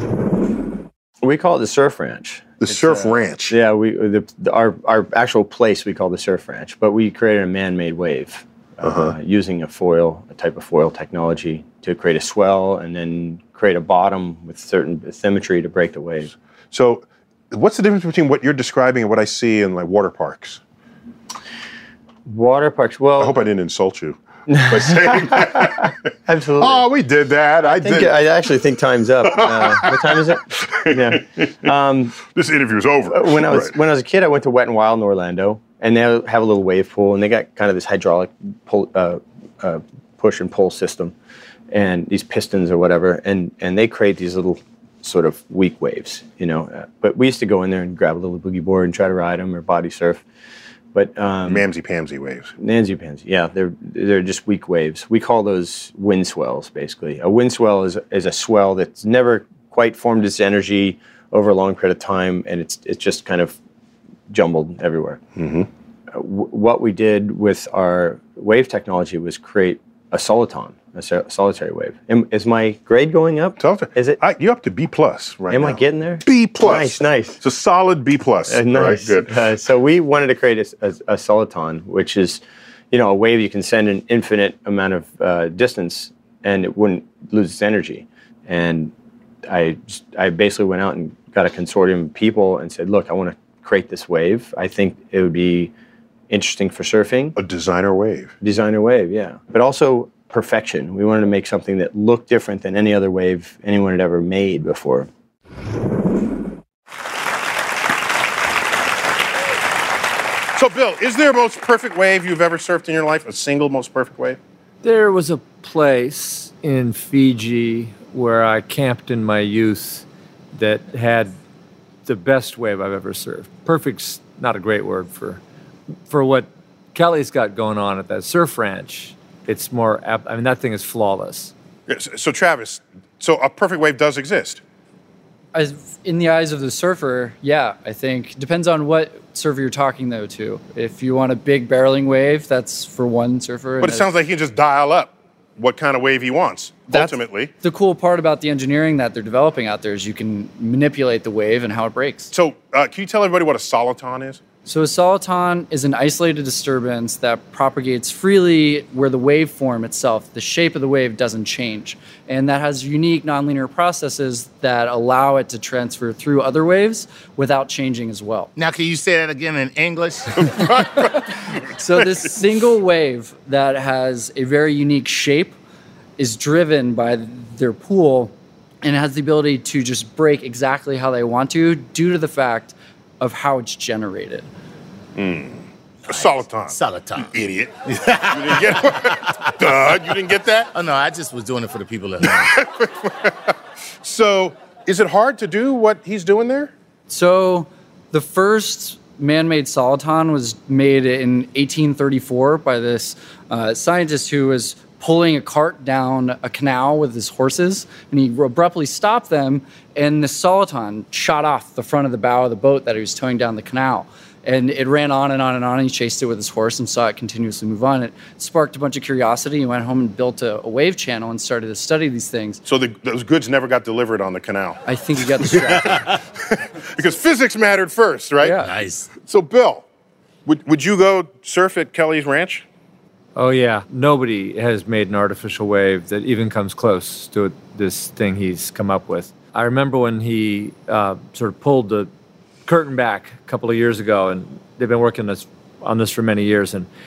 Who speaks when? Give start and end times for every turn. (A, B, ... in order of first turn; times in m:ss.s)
0:01.2-0:16.3 A
0:02.6-0:03.5 B
0:08.8-0:09.1 B
0:16.7-0:20.6 B
0:22.2-0:23.3 A
0:23.2-0:26.0 B
0:24.5-0:26.8 A
0:26.6-0:28.1 B
0:27.6-0:32.2 A
0:29.3-0:31.5 B
0:32.2-0:33.7 B
0:33.1-0:41.1 A
0:41.7-0:50.2 A
0:50.9-0:51.6 A
0:51.5-0:52.5 B
0:52.6-1:03.6 A
1:04.3-1:05.2 A
1:05.4-1:05.7 B
1:06.1-1:14.2 A
1:13.6-1:19.3 B
1:15.5-1:17.4 A
1:18.5-1:28.9 A
1:29.4-1:35.7 A
1:36.3-1:37.4 A
1:37.4-1:38.3 B
1:38.4-1:45.1 A
1:50.5-1:54.4 B
1:54.8-2:01.4 C
2:02.0-2:05.4 C
2:06.1-2:11.5 C
2:11.9-2:14.6 B
2:15.5-2:24.1 D
2:23.8-2:27.5 B
2:26.9-2:32.3 D
2:32.3-2:34.4 B
2:34.6-2:48.5 D
2:48.6-2:50.6 E
2:50.4-2:52.2 B
2:51.8-2:55.6 D
2:56.2-3:04.4 D
3:05.2-3:10.7 B
3:06.1-3:07.4 E
3:07.9-3:10.1 E
3:10.7-3:12.5 E
3:12.2-3:16.7 B
3:17.1-3:42.6 D
3:42.6-3:44.8 B
3:44.8-3:46.0 D
3:45.5-3:48.5 B
3:48.4-3:48.7 D
3:48.6-3:49.1 E
3:49.2-3:49.8 B
3:50.4-3:52.6 B
3:53.4-4:02.1 C
4:02.7-4:06.9 C